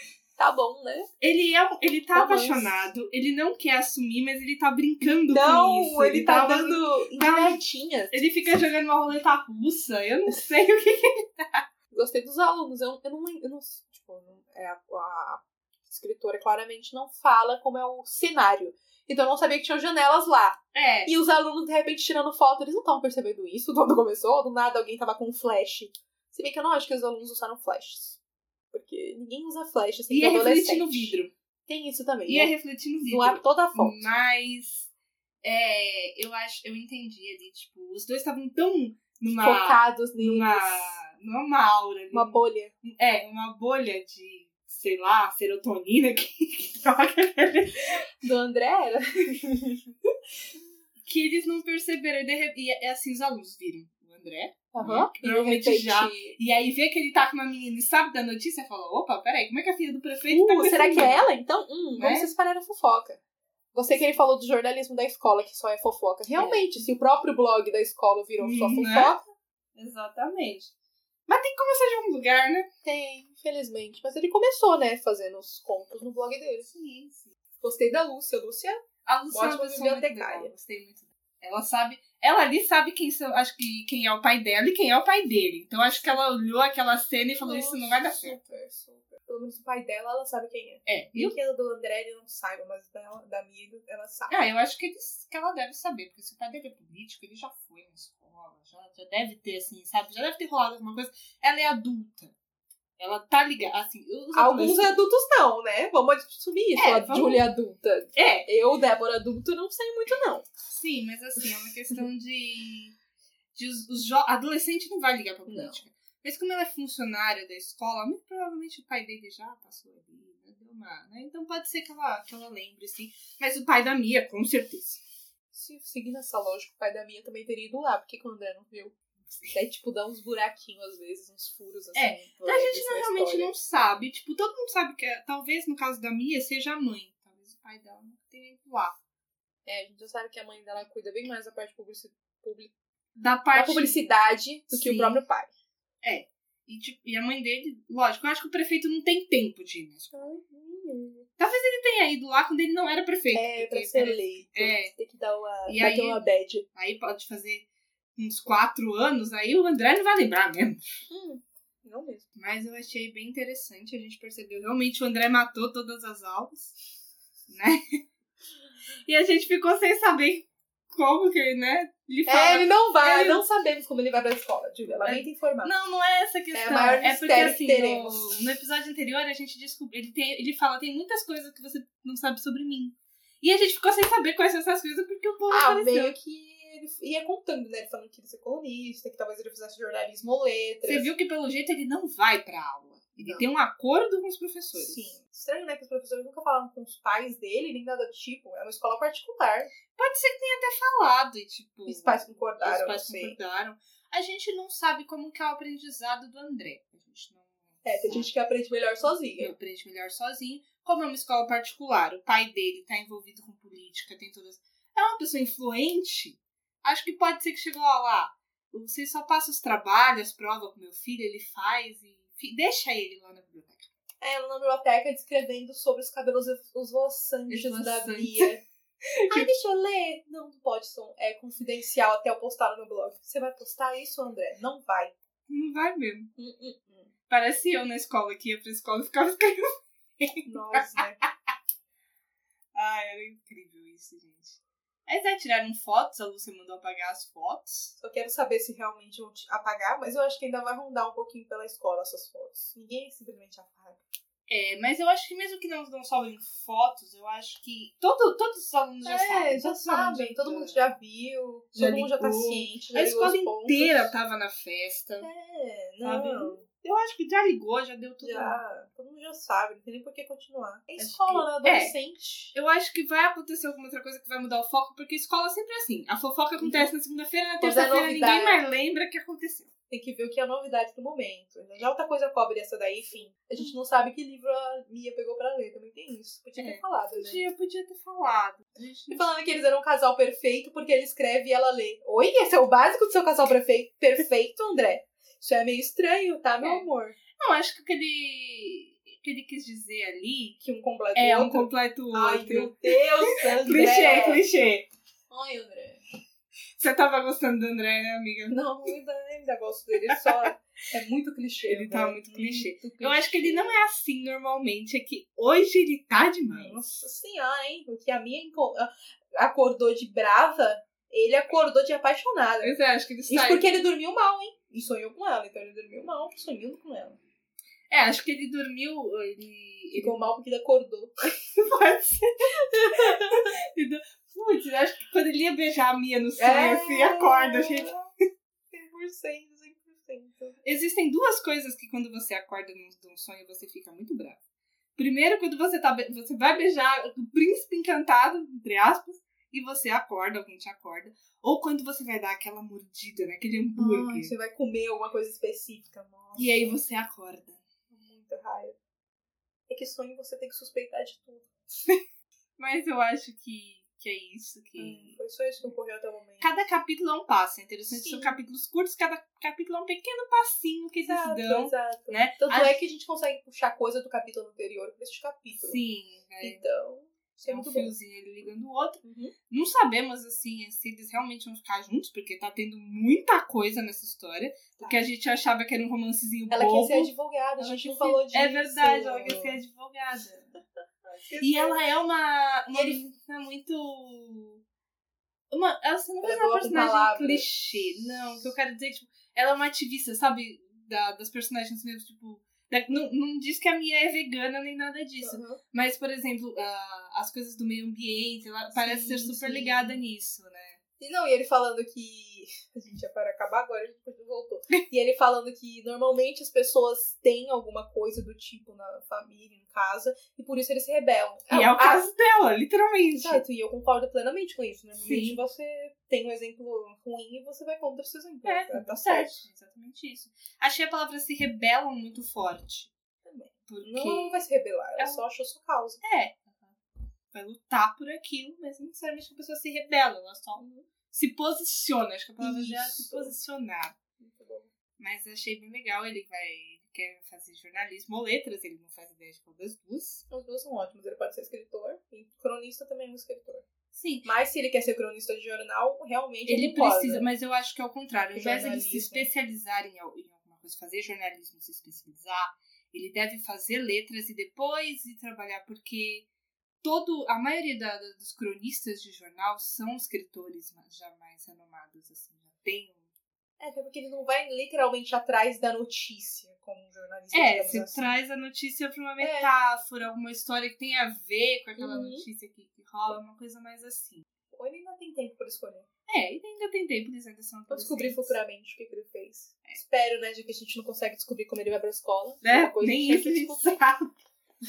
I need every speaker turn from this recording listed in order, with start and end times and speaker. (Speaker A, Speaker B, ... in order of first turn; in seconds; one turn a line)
Speaker A: 0.4-1.1
Speaker B: 1.2-7.6
Speaker A: 2.1-2.8
Speaker A: 5.3-8.2
Speaker B: 8.1-11.6
Speaker A: 11.9-28.2
Speaker B: 20.7-21.1
Speaker A: 28.7-32.5
Speaker B: 30.1-31.3
Speaker B: 32.3-34.9
Speaker A: 33.0-34.1
Speaker B: 35.4-48.0
Speaker A: 39.4-41.0
Speaker A: 42.1-42.7
Speaker A: 48.2-49.8
Speaker B: 51.0-61.3
Speaker A: 54.7-56.4
Speaker A: 60.3-63.2
Speaker B: 62.0-62.3
Speaker A: 63.7-69.2
Speaker B: 66.3-66.9
Speaker B: 68.4-69.1
Speaker B: 69.8-70.7
Speaker B: 71.3-72.7
Speaker A: 72.8-76.7
Speaker B: 76.7-77.3
Speaker A: 77.6-80.5
Speaker B: 79.0-88.4
Speaker A: 87.4-94.3
Speaker B: 90.9-91.3
Speaker B: 94.3-102.3
Speaker B: 103.0-105.0
Speaker A: 104.3-110.5
Speaker B: 106.8-107.4
Speaker B: 108.2-108.5
Speaker B: 110.7-113.0
Speaker B: 113.5-125.0
Speaker A: 115.5-115.8
Speaker A: 125.5-128.9
Speaker A: 129.5-133.6
Speaker B: 131.9-139.0
Speaker A: 139.7-142.7
Speaker B: 143.2-144.0
Speaker A: 143.5-145.5
Speaker B: 144.7-145.2
Speaker B: 146.0-150.4
Speaker A: 150.1-151.3
Speaker B: 151.4-154.9
Speaker A: 153.3-156.7
Speaker B: 155.7-156.2
Speaker B: 156.8-160.9
Speaker A: 161.1-162.3
Speaker B: 162.4-166.8
Speaker B: 167.5-168.0
Speaker B: 169.1-173.4
Speaker A: 172.3-175.8
Speaker B: 175.0-186.1
Speaker A: 176.5-178.4
Speaker A: 185.5-191.1
Speaker B: 190.8-195.1
Speaker A: 193.2-193.5
Speaker A: 194.7-199.7
Speaker B: 199.9-208.3
Speaker A: 201.9-203.4
Speaker A: 207.8-209.5
Speaker B: 209.3-223.9
Speaker A: 224.2-228.6
Speaker B: 227.5-228.5
Speaker B: 229.2-229.5
Speaker A: 229.3-235.2
Speaker B: 235.5-236.3
Speaker A: 236.4-237.1
Speaker B: 237.3-239.6
Speaker B: 240.2-241.0
Speaker A: 240.5-241.2
Speaker B: 242.7-247.9
Speaker A: 248.0-254.1
Speaker B: 254.5-260.9
Speaker A: 259.0-264.1
Speaker B: 261.8-265.3
Speaker A: 265.2-266.6
Speaker B: 266.0-268.6
Speaker A: 268.2-272.5
Speaker B: 271.0-271.9
Speaker B: 272.5-279.7
Speaker A: 276.6-276.9
Speaker A: 277.6-278.6
Speaker A: 279.9-287.4
Speaker B: 286.6-289.3
Speaker A: 289.1-297.2
Speaker B: 296.6-296.9
Speaker B: 297.4-300.6
Speaker A: 300.6-304.4
Speaker B: 301.1-302.8
Speaker B: 303.5-304.9
Speaker A: 305.3-306.0
Speaker B: 306.8-308.6
Speaker A: 308.5-313.8
Speaker B: 311.6-316.8
Speaker A: 316.5-322.8
Speaker B: 322.6-323.7
Speaker A: 323.3-327.2
Speaker B: 327.9-330.3
Speaker A: 329.9-331.1
Speaker B: 331.5-338.0
Speaker A: 332.8-333.4
Speaker A: 336.4-338.1
Speaker A: 338.7-340.6
Speaker B: 340.6-344.4
Speaker B: 345.0-354.3
Speaker A: 353.8-356.8
Speaker B: 356.4-357.6
Speaker A: 357.9-358.8
Speaker A: 359.7-361.5
Speaker B: 362.6-365.2
Speaker A: 364.8-366.6
Speaker B: 366.4-372.8
Speaker A: 368.0-368.4
Speaker A: 371.0-375.8
Speaker B: 375.5-376.6
Speaker A: 376.4-377.9
Speaker B: 377.5-390.5
Speaker A: 379.0-379.3
Speaker A: 386.5-389.6
Speaker A: 391.1-391.9
Speaker B: 391.4-394.6
Speaker A: 392.7-393.0
Speaker B: 395.5-410.8
Speaker A: 396.2-397.5
Speaker A: 405.2-405.6
Speaker A: 408.7-410.0
Speaker A: 411.0-422.0
Speaker B: 421.5-423.4
Speaker A: 423.1-429.5
Speaker B: 425.0-425.4
Speaker B: 428.4-432.9
Speaker A: 433.2-436.0
Speaker B: 433.7-434.4
Speaker B: 435.0-435.2
Speaker B: 436.0-436.8
Speaker B: 437.3-444.0
Speaker A: 440.6-440.9
Speaker A: 442.4-443.4
Speaker A: 444.2-444.7
Speaker B: 445.0-450.2
Speaker A: 450.3-453.6
Speaker B: 453.9-454.3
Speaker A: 454.2-457.3
Speaker B: 456.5-466.3
Speaker A: 458.4-459.3
Speaker B: 466.8-473.1
Speaker A: 473.6-478.2
Speaker B: 477.3-484.2
Speaker A: 479.2-479.5
Speaker A: 481.8-482.2
Speaker A: 484.5-485.9
Speaker B: 486.1-488.4
Speaker A: 487.7-493.8
Speaker B: 492.4-494.1